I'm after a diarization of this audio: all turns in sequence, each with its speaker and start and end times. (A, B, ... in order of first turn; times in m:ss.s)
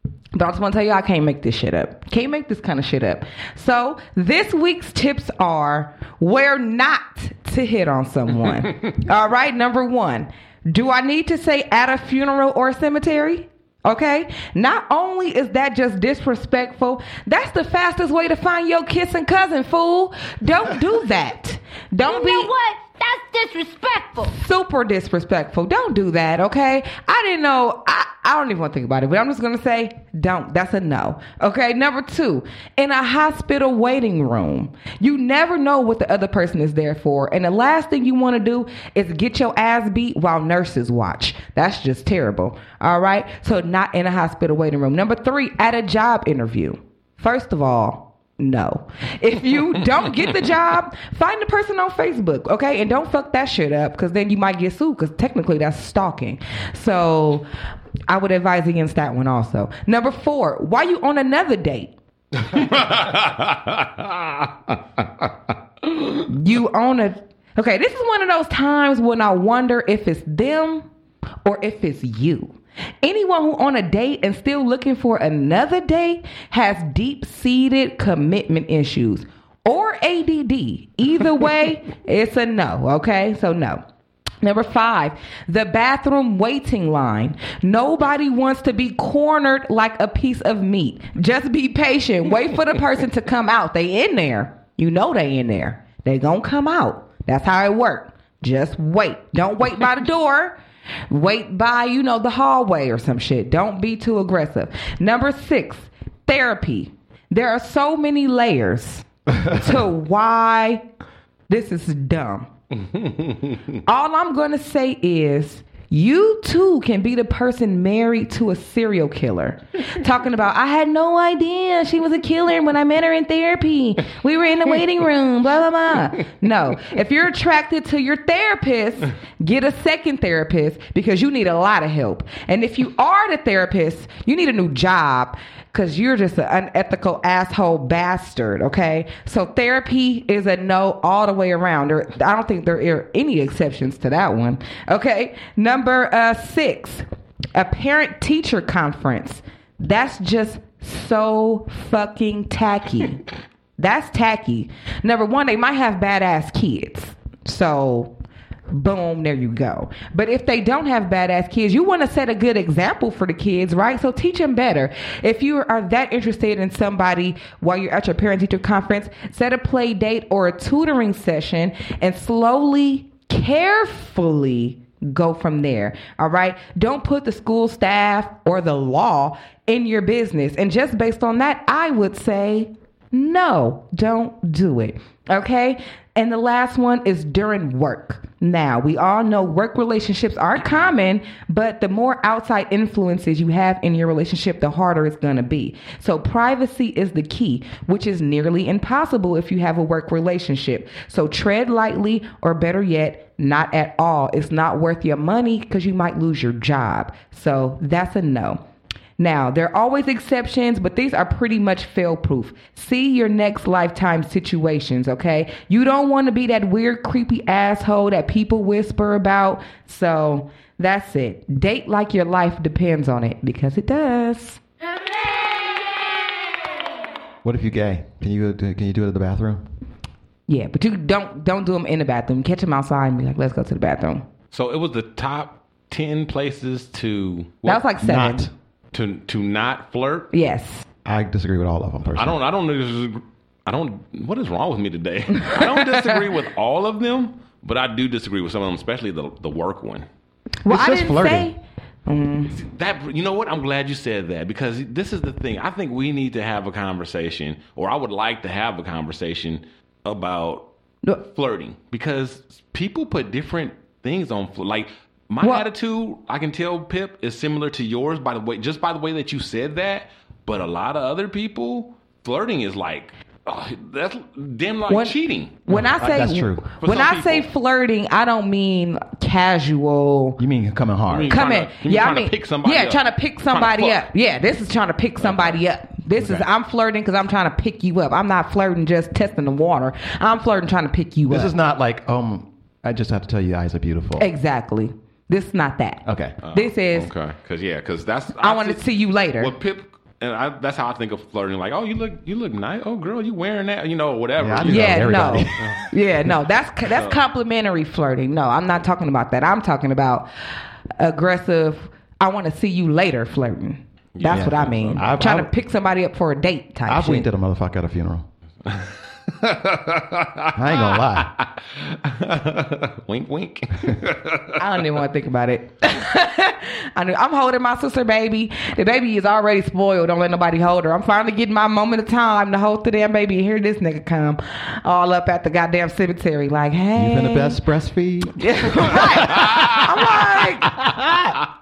0:00.3-0:22.5 A
0:22.0-0:24.4 B
0:24.3-0:57.5 A
0:58.1-1:01.9 A
1:02.5-1:04.7 C
1:06.2-1:10.9 A
1:11.4-1:23.8 A
1:24.4-1:40.6 A
1:41.1-1:50.8 A
1:51.5-1:52.5 A
1:52.8-1:53.6 C
1:53.8-2:33.2 A
2:33.8-2:38.1 A
2:38.7-3:28.6 A
3:29.2-3:44.6 A
3:47.4-3:49.6 D
3:50.5-3:54.3 A
3:54.5-3:57.8 C
3:57.6-3:58.5 A
3:58.0-3:58.5 D
3:58.9-4:00.3 C
4:00.3-4:00.8 A
4:01.0-4:02.4 D
4:02.1-4:10.1 C
4:10.6-4:12.6 A
4:10.7-4:11.5 D
4:12.5-4:20.6 C
4:21.2-4:35.6 C
4:34.9-4:40.4 A
4:35.7-4:36.6 D
4:36.8-4:37.5 C
4:40.4-4:41.4 D
4:41.1-4:44.0 C
4:41.3-4:51.6 A
4:45.2-4:45.6 C
4:46.2-4:46.5 D
4:51.3-4:54.3 D
4:54.2-4:57.1 A
4:56.0-4:56.4 D
4:56.4-4:58.8 C
4:58.4-4:59.5 A
4:59.4-5:05.9 C
5:04.4-5:05.8 D
5:04.6-5:10.3 A
5:06.8-5:07.2 C
5:11.0-5:17.3 A
5:14.1-5:15.1 C
5:14.3-5:15.5 D
5:16.8-5:18.3 D
5:18.6-5:24.6 C
5:20.6-5:21.3 D
5:24.6-5:37.6 A
5:36.9-5:39.6 D
5:38.4-5:40.9 A
5:39.2-5:39.8 C
5:40.8-5:41.3 D